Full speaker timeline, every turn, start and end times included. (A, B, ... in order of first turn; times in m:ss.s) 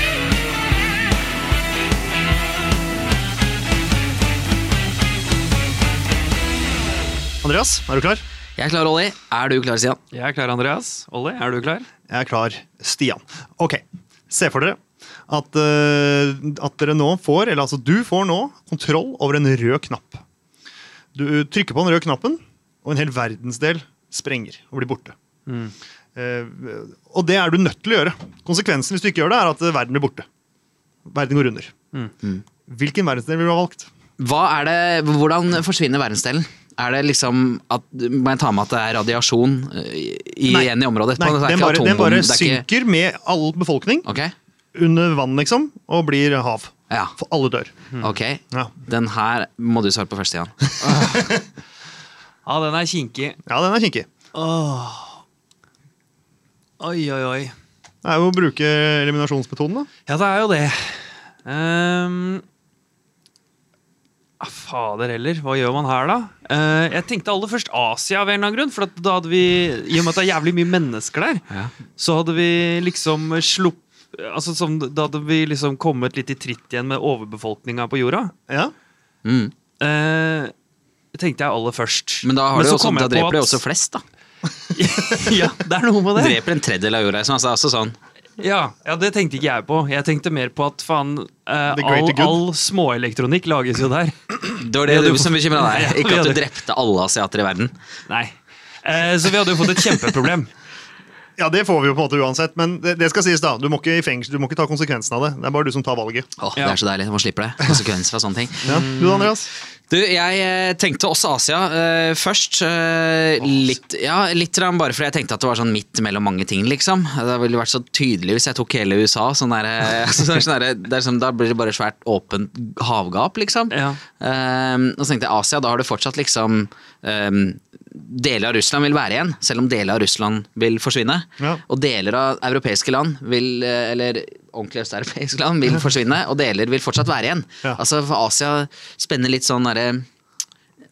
0:07.4-0:08.2 A
0:08.6-0:10.0 B
0:10.1-0:11.9 C
0:12.1-0:20.2 A
0:21.2-0:25.2 A
0:25.5-0:25.7 C
0:26.2-0:30.3 A
0:31.1-0:31.7 A
0:32.7-0:33.9 A
0:34.2-0:42.6 B
0:40.5-0:44.0 A
0:44.0-0:44.3 B
0:44.8-0:47.7 A
0:46.9-0:47.2 B
0:48.0-0:51.1 B
0:50.9-0:51.3 A
0:52.5-0:53.4 C
0:53.5-0:54.1 A
0:54.3-0:55.2 C
0:56.8-0:57.5 C
0:58.0-0:59.9 A
1:00.1-1:02.4 C
1:04.4-1:11.4 C
1:12.0-1:18.3 C
1:19.2-1:19.5 B
1:19.8-1:20.5 C
1:21.1-1:23.6 C
1:22.2-1:24.0 B
1:24.7-1:26.4 C
1:26.1-1:28.0 B
1:28.4-1:36.4 C
1:31.7-1:32.4 A
1:34.5-1:37.7 B
1:38.1-1:40.5 C
1:41.4-1:46.3 A
1:46.4-1:48.9 B
1:48.6-1:49.3 C
1:48.6-1:49.5 A
1:49.9-2:20.1 B
2:03.7-2:04.0 C